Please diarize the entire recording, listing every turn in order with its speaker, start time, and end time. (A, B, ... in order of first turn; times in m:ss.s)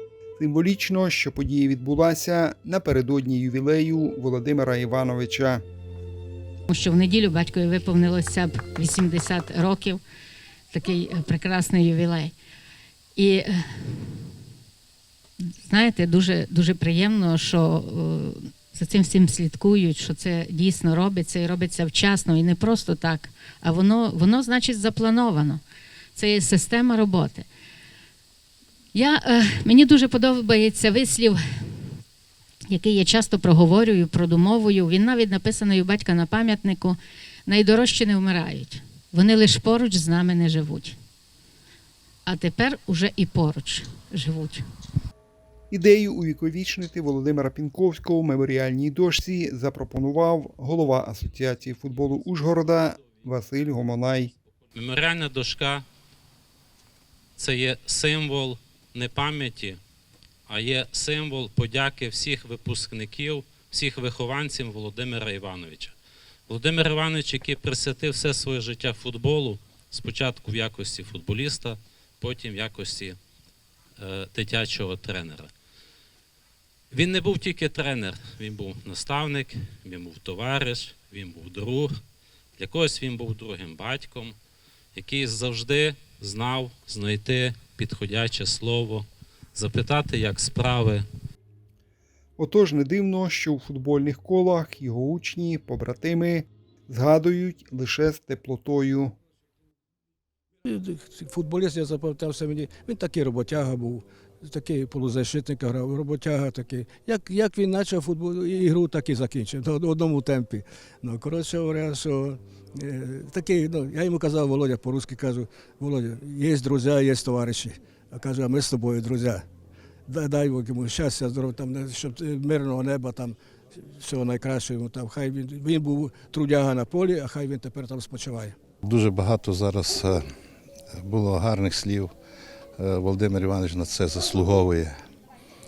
0:00.4-0:05.6 A
0:06.7-0:10.0 B
0:10.7-0:12.4 B
0:13.2-0:14.3 B
0:15.4-0:25.6 B
0:26.2-0:27.5 B
0:28.9-0:31.9 B
0:32.7-0:41.0 B
0:42.2-0:44.6 B
0:45.7-0:54.3 A
0:54.8-0:55.8 C
0:57.4-0:59.8 C
1:00.5-1:06.0 C
1:06.5-1:13.2 C
1:14.0-1:15.5 C
1:16.9-1:21.9 C
1:22.6-1:24.4 C
1:25.0-1:31.0 C
1:32.4-1:39.2 A
1:40.7-1:59.5 D
2:00.1-2:08.6 D
2:08.8-2:10.2 E
2:11.0-2:12.1 E
2:12.8-2:14.9 E